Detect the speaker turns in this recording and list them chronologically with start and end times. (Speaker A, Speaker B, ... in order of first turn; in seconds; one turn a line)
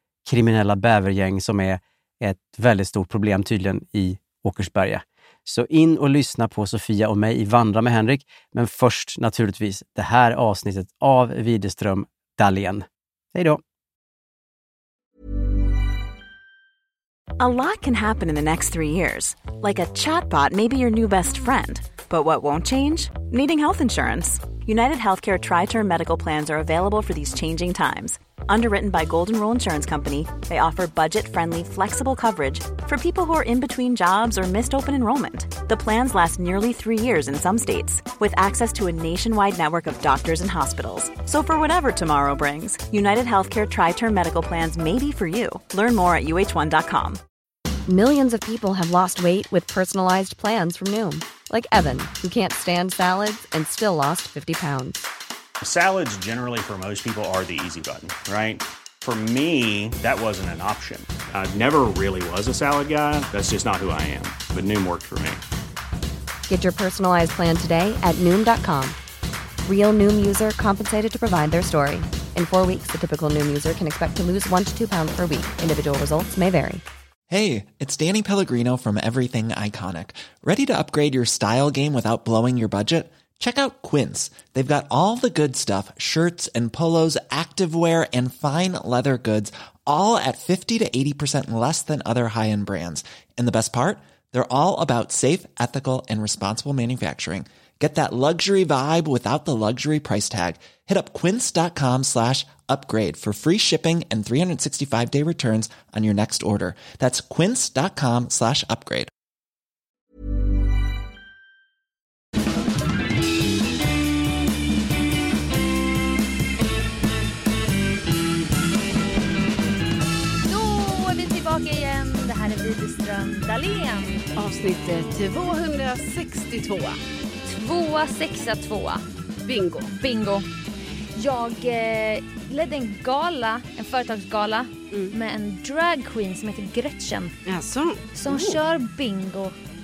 Speaker A: 0.2-13.6
Speaker B: 17.4-47.2
Speaker C: 47.9-55.0
Speaker D: 55.6-65.4
Speaker C: 66.5-69.0
Speaker C: 69.7-76.8
Speaker E: 77.3-109.1
Speaker F: 120.4-124.3
Speaker G: 124.4-127.0
Speaker F: 127.5-129.0
Speaker G: 129.4-129.9
Speaker F: 129.9-130.5
Speaker F: 131.2-137.3
Speaker G: 137.5-138.6
Speaker F: 138.2-139.6